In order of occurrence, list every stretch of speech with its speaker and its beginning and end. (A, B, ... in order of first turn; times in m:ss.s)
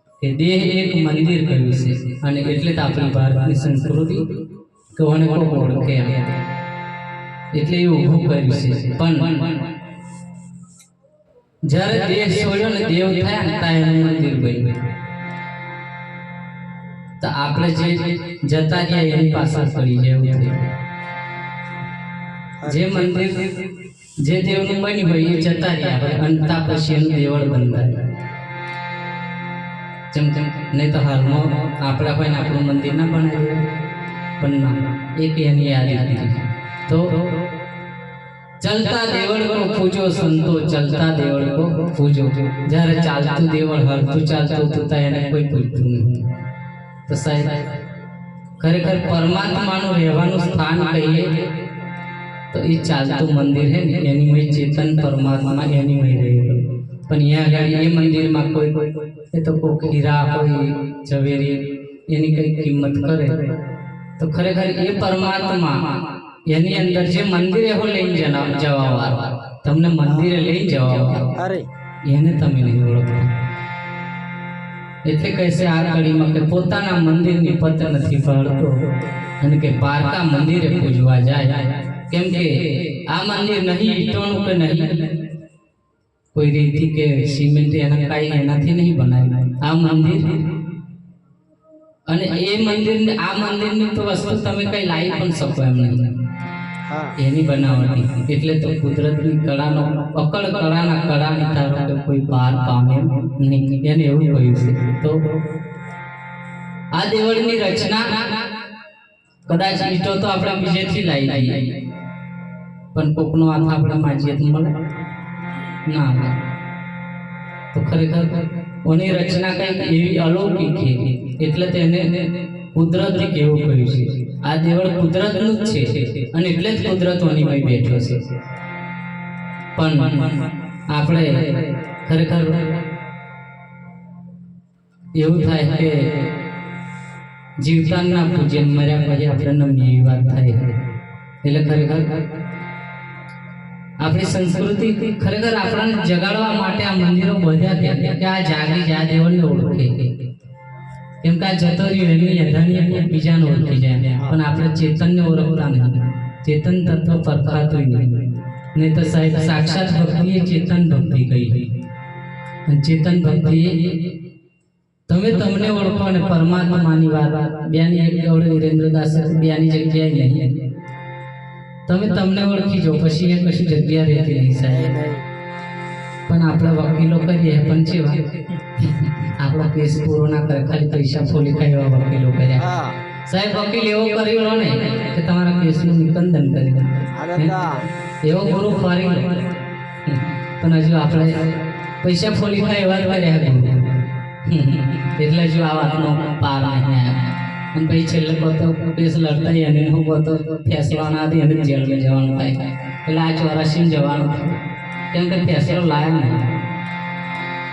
0:00.2-0:04.3 A
0:04.9-0:06.3 A
0:07.5-0:09.7 A
0:11.6-0:14.9 A
0:17.2-0:20.7 A
0:22.6-0:28.1 A
0:30.1-0:33.6 A
0:34.4-0:37.3 A
0:38.6-0:46.3 A
0:47.1-0:47.7 A
0:48.6-0:51.5 A
0:52.5-1:03.5 A
1:04.2-1:11.4 A
1:11.4-1:11.7 B
1:12.0-1:13.3 A
1:15.0-1:18.7 A
1:19.4-1:25.1 A
1:26.3-1:30.5 A
1:32.1-1:36.2 A
1:36.9-1:37.1 B
1:37.2-1:45.3 A
1:46.9-1:48.5 A
1:49.4-1:51.8 A
1:52.9-1:54.8 A
1:55.8-1:56.4 A
1:57.7-2:08.3 A
2:09.8-2:10.3 A
2:10.9-2:12.8 A
2:15.1-2:16.2 A
2:17.6-2:20.7 A
2:21.4-2:22.2 A
2:24.0-2:30.1 A
2:31.2-2:41.8 A
2:42.6-2:44.1 A
2:45.1-2:50.6 A
2:51.9-2:55.0 A
2:54.7-2:55.2 B
2:56.3-3:02.7 A
3:02.6-3:03.0 B
3:03.2-3:07.6 A
3:07.1-3:07.8 B
3:08.2-3:09.5 A
3:10.0-3:26.6 A